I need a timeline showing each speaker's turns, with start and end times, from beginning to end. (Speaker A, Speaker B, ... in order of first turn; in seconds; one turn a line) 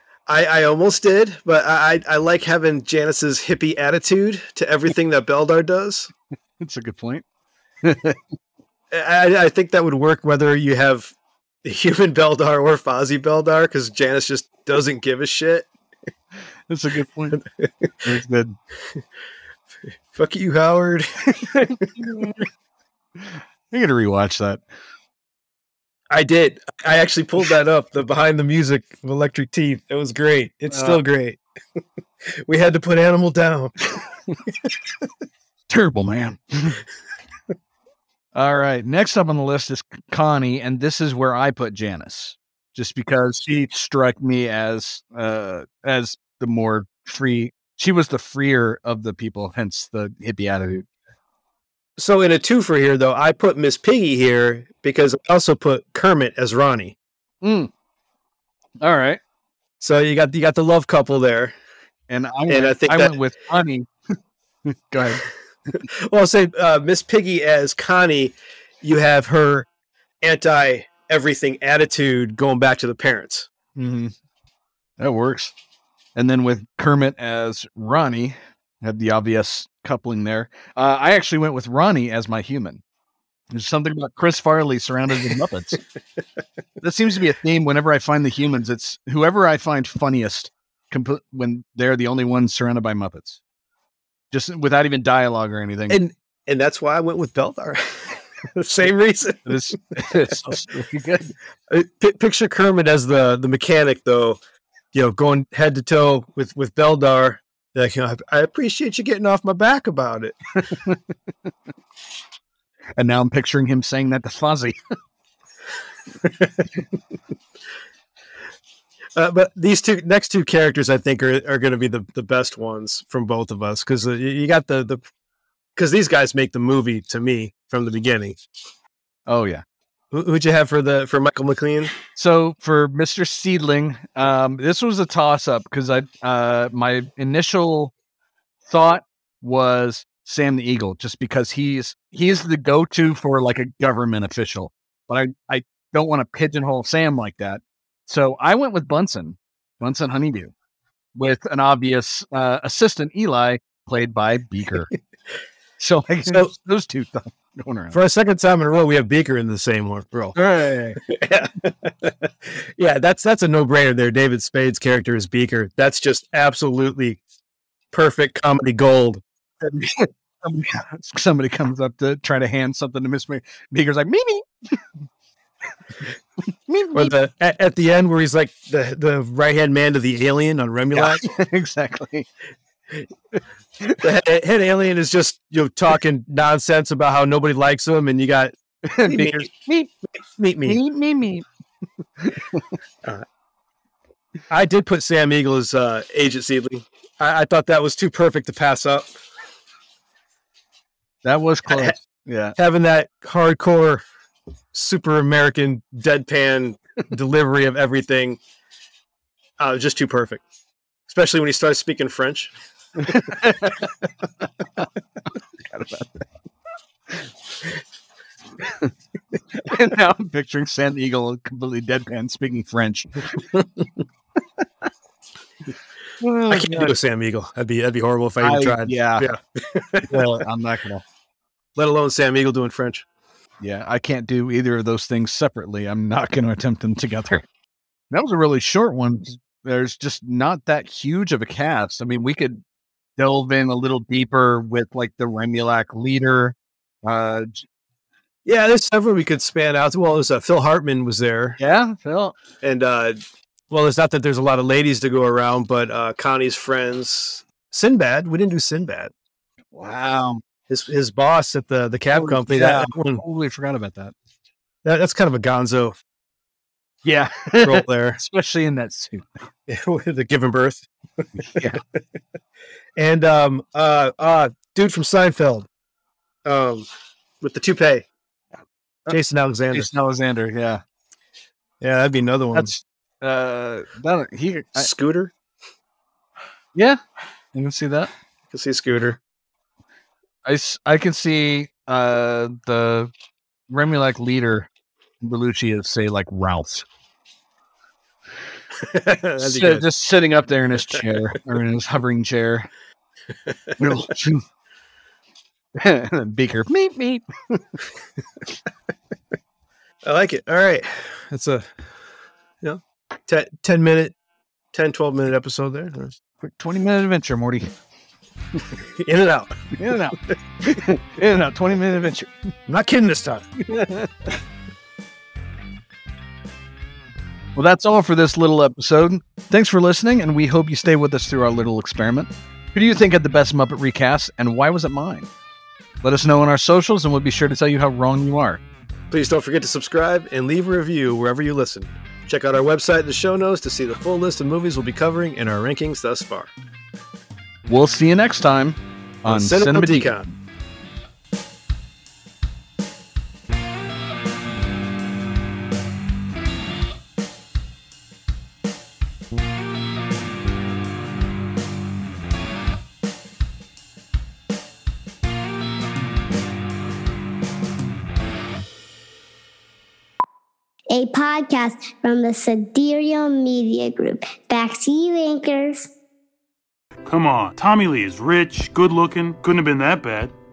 Speaker A: 0.3-6.1
Speaker B: 6.6-7.2
Speaker B: 7.8-8.2
Speaker A: 8.9-15.7
Speaker B: 16.7-17.4
Speaker A: 17.3-17.9
Speaker B: 18.0-18.6
Speaker A: 20.1-21.9
Speaker B: 21.4-22.5
Speaker B: 23.7-24.6
Speaker A: 26.1-31.4
Speaker B: 30.7-31.0
Speaker A: 32.5-33.8
Speaker B: 35.7-36.8
Speaker B: 38.3-50.9
Speaker A: 52.0-57.0
Speaker B: 57.4-57.7
Speaker B: 58.8-59.2
Speaker A: 59.8-61.5
Speaker B: 62.1-63.9
Speaker A: 62.5-63.1
Speaker B: 64.6-65.9
Speaker A: 66.1-69.7
Speaker A: 70.2-73.5
Speaker B: 73.8-74.1
Speaker B: 75.0-75.5
Speaker B: 76.1-82.8
Speaker B: 83.5-85.8
Speaker B: 86.8-93.4
Speaker B: 94.3-96.0
Speaker A: 95.9-99.6
Speaker B: 99.5-101.3
Speaker A: 101.7-104.4
Speaker A: 104.9-110.4
Speaker B: 110.7-111.0
Speaker B: 113.0-114.8
Speaker A: 116.2-116.6
Speaker A: 119.2-125.0
Speaker A: 125.8-128.4
Speaker B: 129.3-129.6
Speaker A: 130.1-131.9
Speaker B: 132.1-137.9
Speaker B: 138.6-150.5
Speaker B: 151.2-154.9
Speaker B: 155.8-158.0
Speaker A: 156.2-156.5
Speaker A: 157.9-160.4
Speaker B: 160.3-161.0
Speaker A: 161.0-167.2
Speaker A: 167.9-169.2
Speaker B: 169.6-174.8
Speaker B: 176.7-177.1
Speaker A: 176.9-181.3
Speaker B: 180.9-182.3
Speaker A: 184.0-188.5
Speaker B: 188.9-189.9
Speaker A: 189.1-189.5
Speaker A: 190.3-190.8
Speaker B: 190.6-191.4
Speaker B: 192.2-192.6
Speaker A: 194.5-199.1
Speaker B: 201.2-202.6
Speaker A: 201.7-201.9
Speaker A: 202.6-204.0
Speaker A: 204.7-208.4
Speaker A: 209.6-210.4
Speaker A: 211.1-212.5
Speaker B: 213.0-213.9
Speaker B: 215.7-216.1
Speaker B: 219.6-223.4
Speaker B: 226.2-226.9
Speaker A: 226.5-230.4
Speaker B: 228.4-229.3
Speaker B: 230.1-231.0
Speaker A: 231.8-233.1
Speaker B: 233.6-237.4
Speaker B: 238.1-242.6
Speaker B: 243.2-247.6
Speaker A: 248.4-251.6
Speaker B: 251.6-252.4
Speaker A: 252.6-253.2
Speaker A: 253.7-259.1
Speaker B: 259.7-260.4
Speaker A: 260.7-263.2
Speaker B: 262.1-264.1
Speaker A: 264.8-266.0
Speaker B: 267.0-269.3
Speaker A: 267.6-268.2
Speaker A: 269.7-271.8
Speaker B: 271.4-271.8
Speaker A: 272.9-275.7
Speaker A: 276.4-276.9
Speaker A: 277.4-278.1
Speaker A: 279.1-279.9
Speaker B: 279.7-280.8
Speaker A: 281.8-282.7
Speaker B: 282.5-284.9
Speaker A: 284.8-285.3
Speaker B: 286.8-287.0
Speaker B: 287.5-288.1
Speaker A: 288.5-289.2
Speaker B: 290.4-293.1
Speaker B: 293.7-294.7
Speaker B: 295.2-296.8
Speaker A: 298.8-299.9
Speaker B: 299.4-302.7
Speaker B: 303.8-304.4
Speaker B: 305.8-307.3
Speaker A: 310.0-311.6
Speaker A: 312.6-314.1
Speaker A: 314.7-316.1
Speaker B: 316.4-317.7
Speaker A: 318.8-319.8
Speaker B: 319.8-322.3
Speaker A: 322.7-323.4
Speaker B: 323.6-324.3
Speaker B: 327.6-335.3
Speaker B: 336.0-338.6
Speaker A: 339.1-346.5
Speaker B: 347.7-350.2
Speaker A: 349.3-350.3
Speaker C: 370.9-375.9
Speaker D: 377.1-380.3